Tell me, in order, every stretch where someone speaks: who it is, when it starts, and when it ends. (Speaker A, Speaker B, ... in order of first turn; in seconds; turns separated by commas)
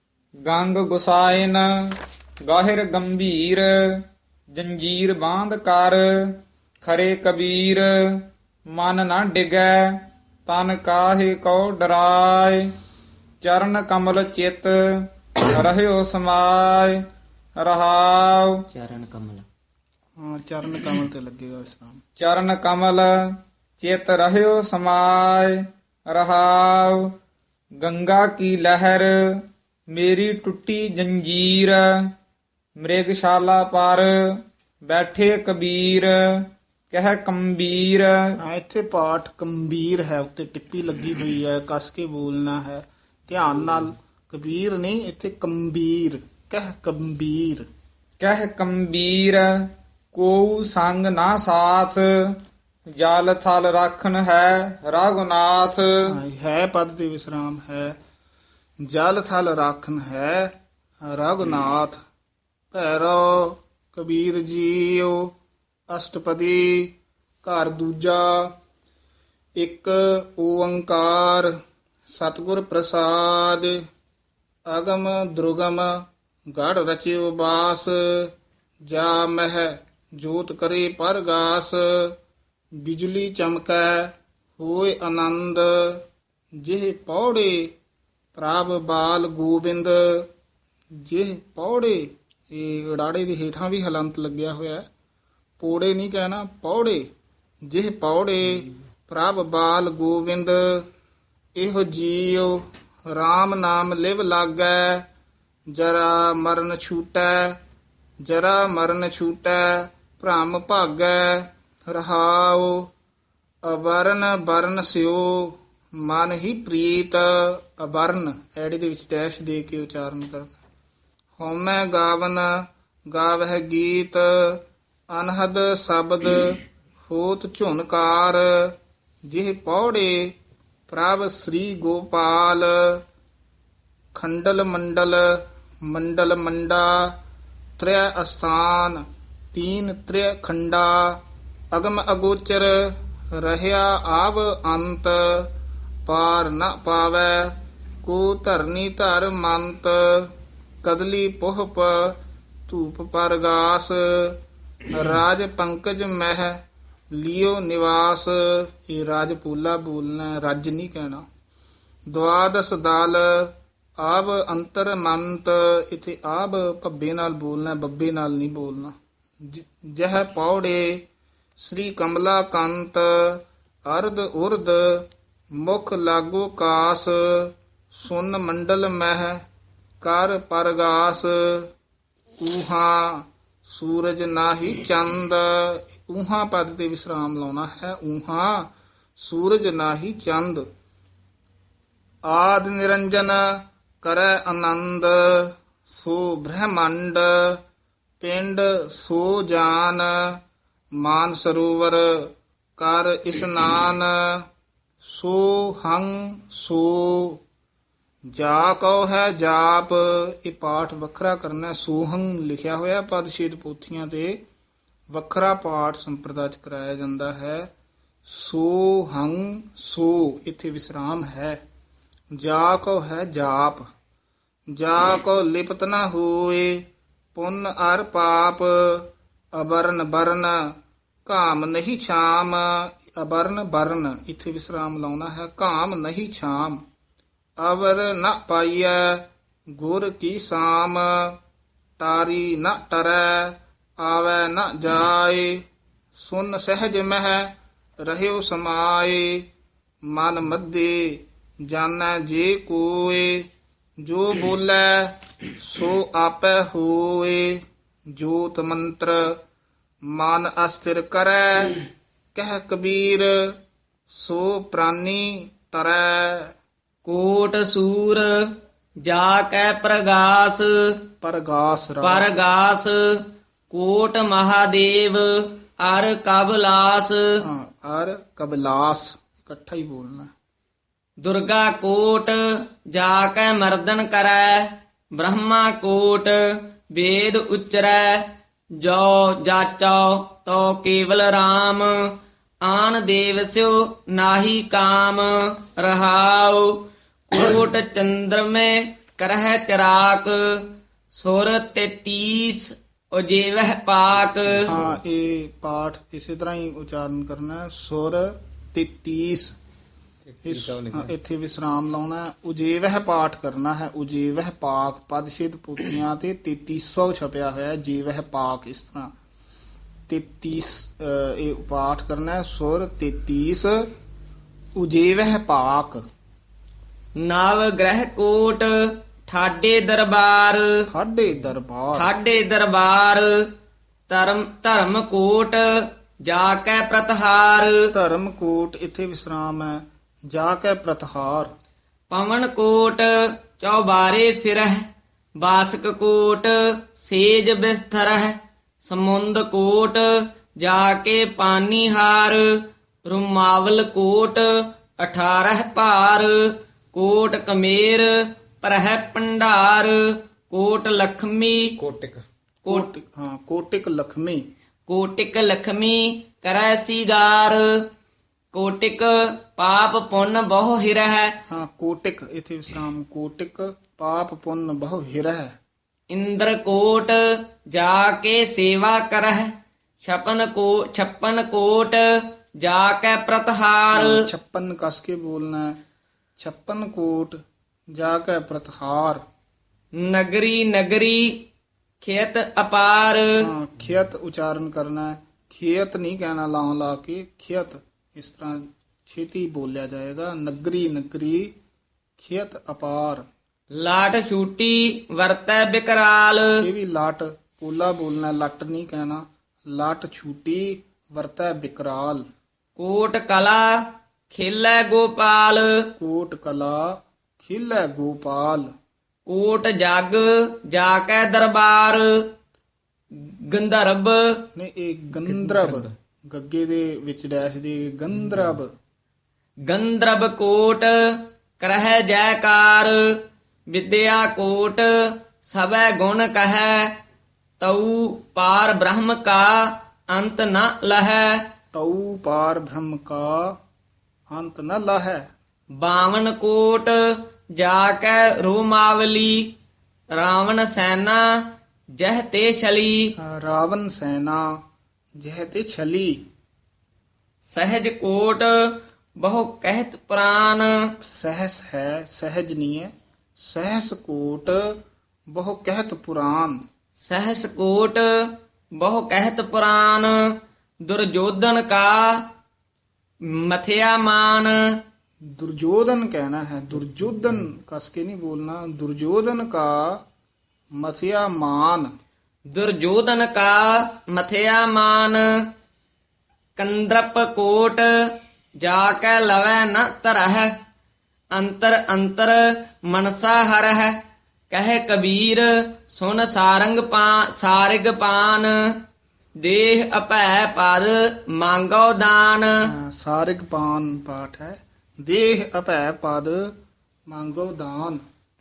Speaker A: 0.4-1.9, Speaker A: 2.4-12.7, Speaker A: 13.4-17.0, Speaker A: 17.6-18.6, Speaker B: 18.7-19.4, Speaker C: 20.2-22.0, Speaker A: 22.2-27.1, Speaker A: 27.8-31.9, Speaker A: 32.8-38.4, Speaker C: 38.4-47.7, Speaker A: 48.2-52.4, Speaker A: 53.0-56.1, Speaker C: 56.1-58.0, Speaker C: 58.8-62.0, Speaker C: 62.7-65.3, Speaker C: 65.9-68.5, Speaker C: 69.5-71.5, Speaker C: 72.1-73.8, Speaker C: 74.7-78.3, Speaker C: 78.8-82.2, Speaker C: 82.8-86.0, Speaker C: 86.6-87.7, Speaker C: 88.3-90.3, Speaker C: 91.0-94.8, Speaker C: 95.6-97.1, Speaker C: 97.6-100.9, Speaker C: 101.5-105.0, Speaker C: 105.7-107.6, Speaker C: 108.2-112.9, Speaker C: 113.6-120.5, Speaker C: 121.4-130.3, Speaker C: 130.9-133.0, Speaker C: 134.1-137.2, Speaker C: 137.8-145.5, Speaker C: 146.1-161.2, Speaker C: 162.1-171.0, Speaker C: 171.6-179.4, Speaker C: 180.0-181.7, Speaker C: 182.4-190.6, Speaker C: 192.2-197.6, Speaker C: 198.2-200.4, Speaker C: 200.9-204.5, Speaker C: 205.0-207.4, Speaker C: 208.3-214.4, Speaker C: 215.1-217.7, Speaker C: 218.2-221.6, Speaker C: 222.3-223.9, Speaker C: 224.7-236.8, Speaker C: 237.6-241.4, Speaker C: 242.0-249.5, Speaker C: 250.0-253.5, Speaker C: 254.0-259.4, Speaker C: 260.0-263.6, Speaker C: 264.1-266.5, Speaker B: 267.0-271.0, Speaker C: 271.2-272.3, Speaker B: 272.0-277.4, Speaker C: 277.4-280.3, Speaker B: 281.2-304.7, Speaker C: 304.6-309.6, Speaker A: 310.4-311.1, Speaker C: 310.4-319.1, Speaker C: 320.1-323.9, Speaker C: 324.8-326.0, Speaker B: 327.2-330.9, Speaker C: 330.9-332.1, Speaker B: 331.9-333.5, Speaker B: 334.1-337.9, Speaker C: 337.9-341.5, Speaker B: 342.1-344.9, Speaker B: 345.4-361.8, Speaker A: 361.8-362.2, Speaker B: 362.6-362.9, Speaker C: 362.7-364.4, Speaker B: 364.9-367.9, Speaker B: 368.5-371.4, Speaker C: 371.5-375.5, Speaker B: 376.1-384.3, Speaker C: 383.9-385.8, Speaker C: 386.4-387.4, Speaker C: 387.9-389.2, Speaker B: 389.9-391.4, Speaker B: 392.0-393.5, Speaker C: 393.4-401.5, Speaker C: 402.2-403.2, Speaker B: 403.7-406.6, Speaker C: 406.6-412.2, Speaker B: 412.8-415.9, Speaker C: 416.0-418.7, Speaker B: 419.2-422.3, Speaker B: 423.1-424.4, Speaker C: 424.5-428.7, Speaker B: 429.7-437.0, Speaker B: 437.6-441.5, Speaker C: 441.7-443.6, Speaker C: 444.3-445.3, Speaker B: 445.8-449.5, Speaker B: 450.1-451.4, Speaker B: 451.9-453.1, Speaker C: 453.2-454.6, Speaker C: 455.2-456.2, Speaker B: 457.4-460.9, Speaker C: 461.0-464.8, Speaker C: 465.3-466.6, Speaker B: 467.0-470.3, Speaker B: 470.8-472.3, Speaker B: 473.2-474.8, Speaker C: 475.2-480.0, Speaker C: 480.8-481.9, Speaker B: 482.5-485.5, Speaker B: 486.6-490.6, Speaker B: 491.3-498.8, Speaker B: 499.4-502.7, Speaker C: 502.6-506.5, Speaker C: 507.1-508.0